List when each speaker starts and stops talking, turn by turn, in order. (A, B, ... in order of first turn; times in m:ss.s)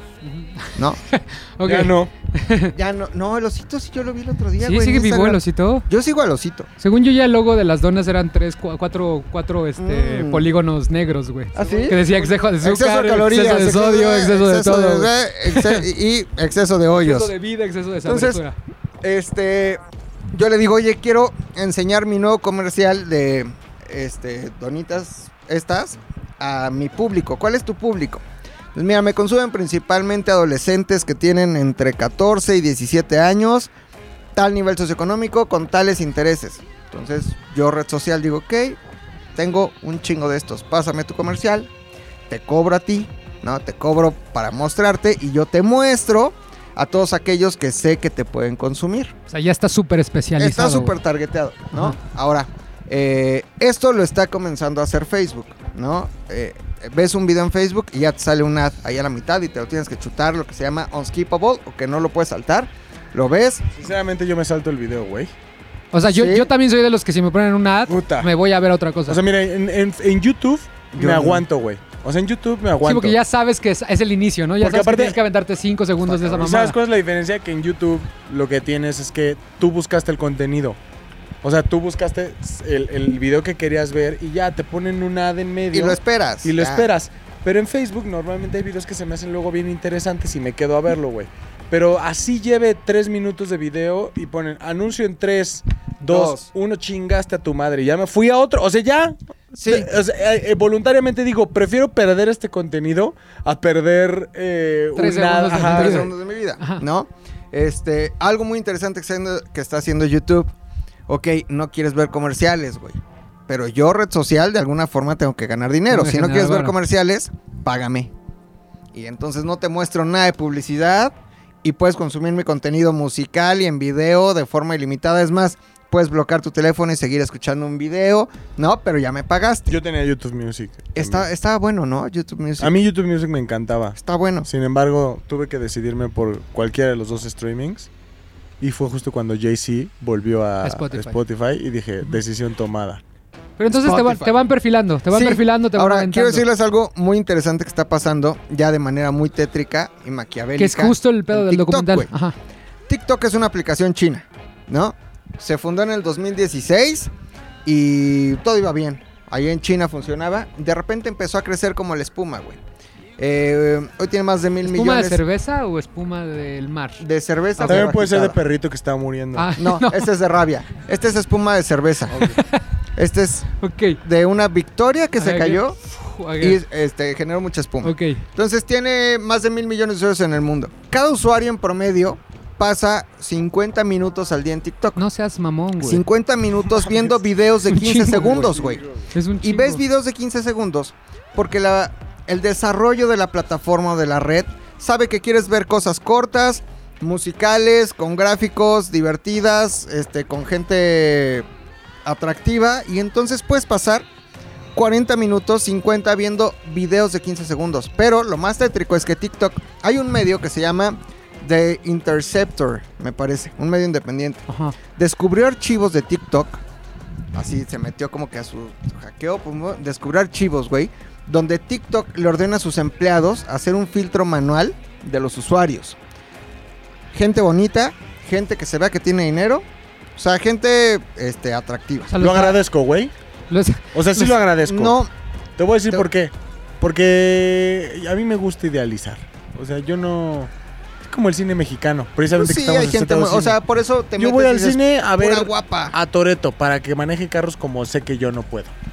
0:00.2-0:02.7 A
0:01.6-0:02.1 B
0:02.7-0:06.7 C
0:04.6-0:05.8 A
0:06.8-0:15.8 A
0:09.8-0:10.5 C
0:11.5-0:17.3 C
0:17.0-0:18.6 A
0:18.0-0:18.4 C
0:19.0-0:19.8 C
0:20.3-0:33.7 C
0:34.3-0:38.8 C
0:39.3-0:41.7 C
0:42.3-0:49.1 C
0:49.3-0:51.0 A
0:50.4-1:03.7 C
0:51.7-0:52.0 A
1:03.8-1:05.3 B
1:05.9-1:09.2 A
1:06.0-1:06.5 C
1:07.9-1:08.3 B
1:09.1-1:13.2 B
1:10.9-1:11.4 C
1:12.8-1:16.8 A
1:14.6-1:15.2 B
1:16.1-1:16.4 C
1:16.3-1:20.8 B
1:21.4-1:46.1 B
1:25.7-1:26.8 C
1:36.0-1:36.5 C
1:39.5-1:39.9 C
1:45.0-1:46.8 A
1:45.5-1:50.5 C
1:51.1-1:58.1 C
1:55.9-1:56.8 A
1:58.9-2:09.8 C
2:09.7-2:11.2 B
2:11.0-2:12.8 C
2:12.6-2:17.9 B
2:14.0-2:14.5 C
2:18.6-2:23.0 B
2:20.6-2:21.2 A
2:23.6-2:26.4 A
2:23.8-2:24.3 C
2:25.1-2:32.1 C
2:30.6-2:32.3 A
2:32.9-2:37.1 C
2:37.6-2:42.6 C
2:43.2-2:45.2 C
2:44.6-2:47.0 A
2:47.0-2:48.4 C
2:47.6-2:47.9 A
2:47.6-2:49.5 B
2:49.4-2:50.1 A
2:49.6-2:52.3 C
2:52.2-2:52.6 A
2:53.0-2:55.8 C
2:53.6-2:54.0 A
2:55.2-2:56.6 A
2:56.4-3:05.0 C
2:57.8-2:58.2 A
3:05.0-3:06.0 A
3:05.8-3:08.8 C
3:07.7-3:08.3 A
3:08.1-3:09.0 B
3:09.1-3:09.8 A
3:09.4-3:21.4 C
3:22.0-3:24.0 C
3:24.7-3:34.4 C
3:34.5-3:34.8 A
3:35.0-3:36.6 C
3:37.3-3:46.0 C
3:47.1-3:52.1 C
3:52.1-3:52.6 A
3:52.2-3:53.1 B
3:53.5-3:54.3 A
3:53.9-3:55.0 B
3:54.6-3:55.1 C
3:55.6-4:00.5 B
4:01.1-4:03.6 B
4:02.3-4:05.9 C
4:04.2-4:08.7 B